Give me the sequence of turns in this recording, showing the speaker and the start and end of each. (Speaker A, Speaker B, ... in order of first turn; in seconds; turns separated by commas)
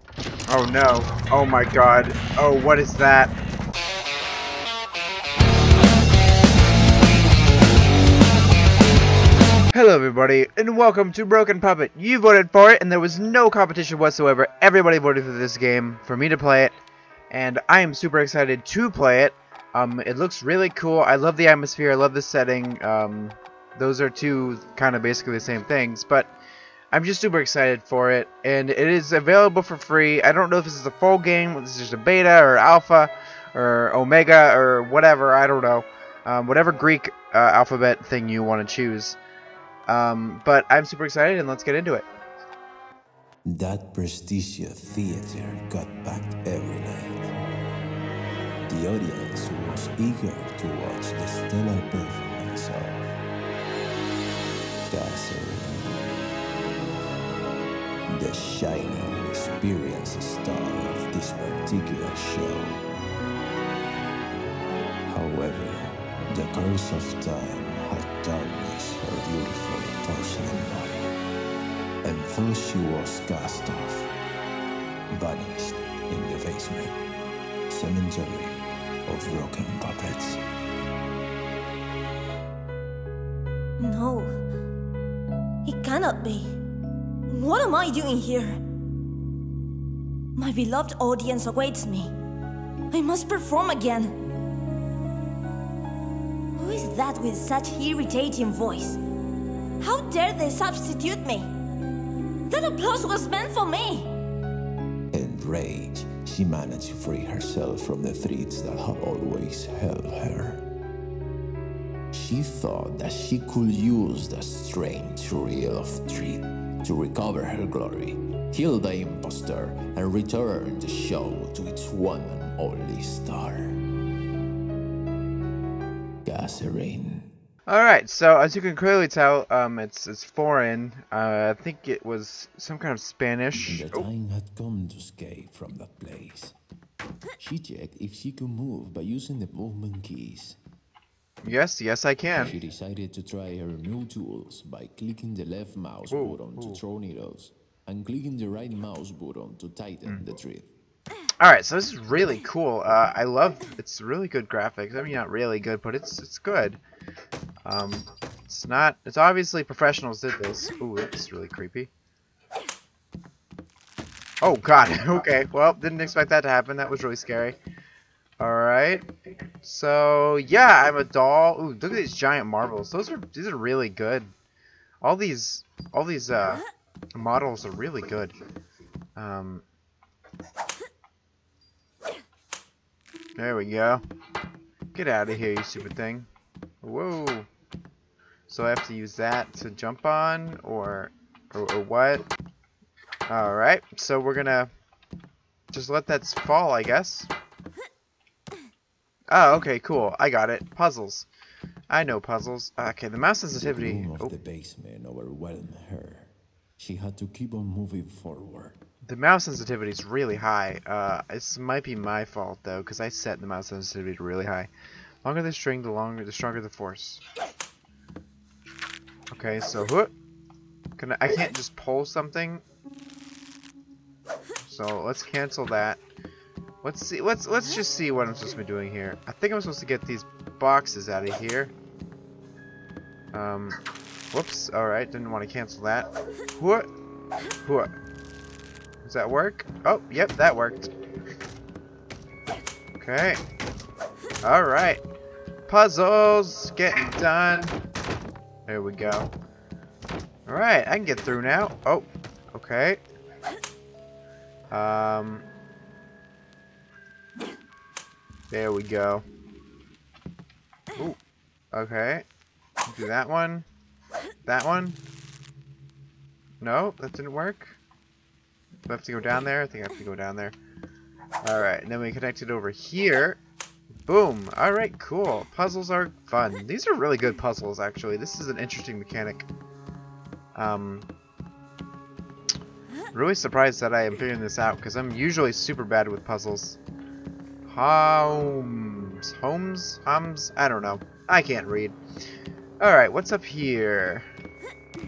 Speaker A: 0.5-3.3, Speaker A: 9.7-16.8, Speaker A: 17.3-26.3, Speaker A: 26.9-39.2, Speaker A: 39.9-42.0, Speaker B: 43.4-47.3, Speaker B: 48.7-53.2, Speaker B: 54.9-56.0, Speaker B: 58.1-62.8, Speaker B: 65.1-71.1, Speaker B: 72.0-74.1, Speaker B: 75.1-77.0, Speaker B: 77.7-80.4, Speaker C: 83.8-84.3, Speaker C: 85.6-86.5, Speaker C: 87.3-88.6, Speaker C: 90.3-92.1, Speaker C: 92.9-94.2, Speaker C: 96.6-99.0, Speaker C: 99.8-101.5, Speaker C: 102.5-104.1, Speaker B: 105.1-110.6, Speaker B: 112.1-123.8, Speaker B: 126.2-127.3, Speaker A: 127.7-134.1, Speaker B: 133.6-136.6, Speaker B: 137.4-140.6, Speaker A: 141.4-142.5, Speaker B: 142.3-150.7, Speaker A: 146.1-146.8, Speaker A: 151.4-156.8, Speaker A: 157.7-161.9, Speaker A: 164.4-167.6, Speaker A: 168.4-169.1, Speaker A: 169.6-174.3, Speaker A: 175.0-176.6, Speaker A: 177.2-178.3, Speaker A: 179.2-179.6, Speaker A: 183.4-184.0, Speaker A: 184.9-186.3, Speaker A: 186.8-187.5, Speaker A: 188.5-192.3, Speaker A: 193.3-194.7, Speaker A: 195.7-197.3, Speaker A: 199.3-201.3, Speaker A: 201.9-204.3, Speaker B: 203.6-208.8, Speaker A: 209.1-214.7, Speaker A: 215.2-217.2, Speaker A: 219.3-220.1, Speaker A: 221.0-222.6, Speaker A: 224.7-226.0, Speaker A: 226.8-231.7, Speaker A: 233.3-233.8, Speaker A: 234.3-236.9, Speaker A: 237.6-237.9, Speaker A: 239.0-240.9, Speaker A: 243.0-243.4, Speaker A: 244.4-245.0, Speaker A: 245.7-247.8, Speaker A: 248.7-249.3, Speaker A: 250.5-253.0, Speaker A: 254.7-255.4, Speaker A: 258.5-259.2, Speaker A: 261.7-262.2, Speaker A: 262.9-263.6, Speaker A: 264.4-265.0, Speaker A: 266.6-267.8, Speaker A: 268.9-270.5, Speaker A: 271.4-273.4, Speaker A: 274.1-279.5, Speaker A: 280.5-281.1, Speaker A: 283.1-286.8, Speaker A: 287.6-292.0, Speaker A: 292.8-294.3